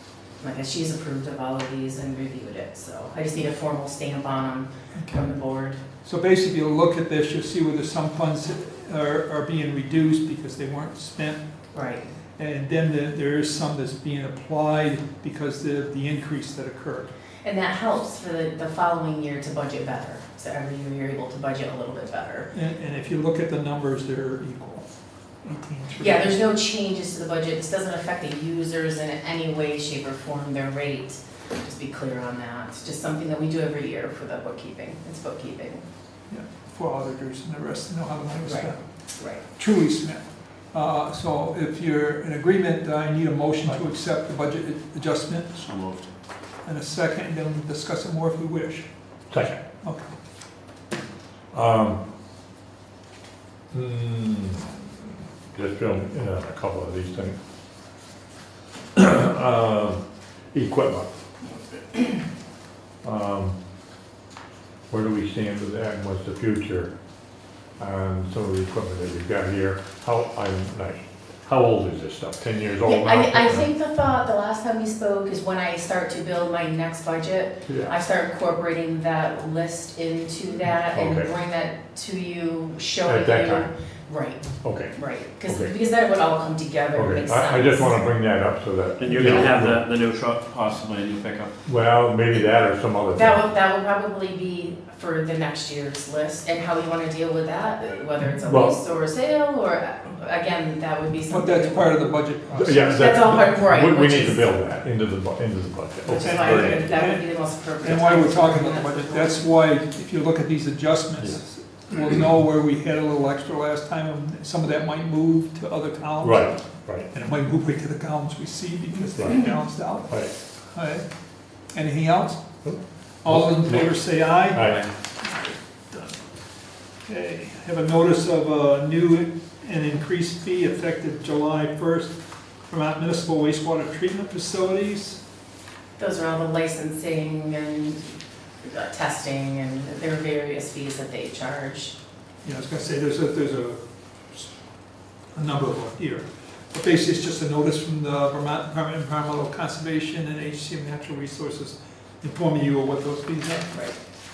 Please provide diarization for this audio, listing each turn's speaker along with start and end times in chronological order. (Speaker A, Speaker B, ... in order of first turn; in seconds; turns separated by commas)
Speaker A: 0.4-5.8, Speaker B: 5.0-5.3, Speaker B: 6.0-11.4, Speaker A: 11.7-12.1, Speaker B: 12.4-17.1, Speaker A: 17.4-22.5, Speaker B: 22.5-24.9, Speaker B: 25.4-26.4, Speaker A: 26.0-35.8, Speaker B: 36.3-38.8, Speaker A: 38.5-39.4, Speaker B: 39.5-45.5, Speaker C: 45.5-46.1, Speaker B: 46.6-48.9, Speaker D: 49.3-49.6, Speaker B: 49.8-50.1, Speaker D: 51.5-52.0, Speaker D: 53.7-54.7, Speaker D: 55.5-57.4, Speaker D: 59.0-61.1, Speaker D: 63.0-63.6, Speaker D: 64.9-66.9, Speaker D: 67.8-73.7, Speaker A: 72.8-88.0, Speaker D: 77.7-78.0, Speaker D: 80.9-81.3, Speaker D: 83.0-83.7, Speaker D: 84.6-85.7, Speaker D: 87.0-89.8, Speaker C: 89.0-91.5, Speaker A: 89.2-89.5, Speaker D: 91.7-93.4, Speaker A: 93.1-104.5, Speaker D: 98.5-98.7, Speaker B: 101.3-102.9, Speaker D: 102.5-106.8, Speaker A: 106.1-109.4, Speaker B: 106.2-116.5, Speaker D: 116.2-117.1, Speaker B: 117.1-120.2, Speaker D: 120.1-120.3, Speaker B: 120.7-121.0, Speaker B: 121.7-122.4, Speaker D: 122.6-124.9, Speaker B: 123.2-126.2, Speaker B: 127.1-132.1, Speaker B: 132.7-135.2, Speaker A: 136.0-138.1, Speaker A: 138.6-141.9, Speaker B: 142.4-144.5, Speaker B: 145.3-153.8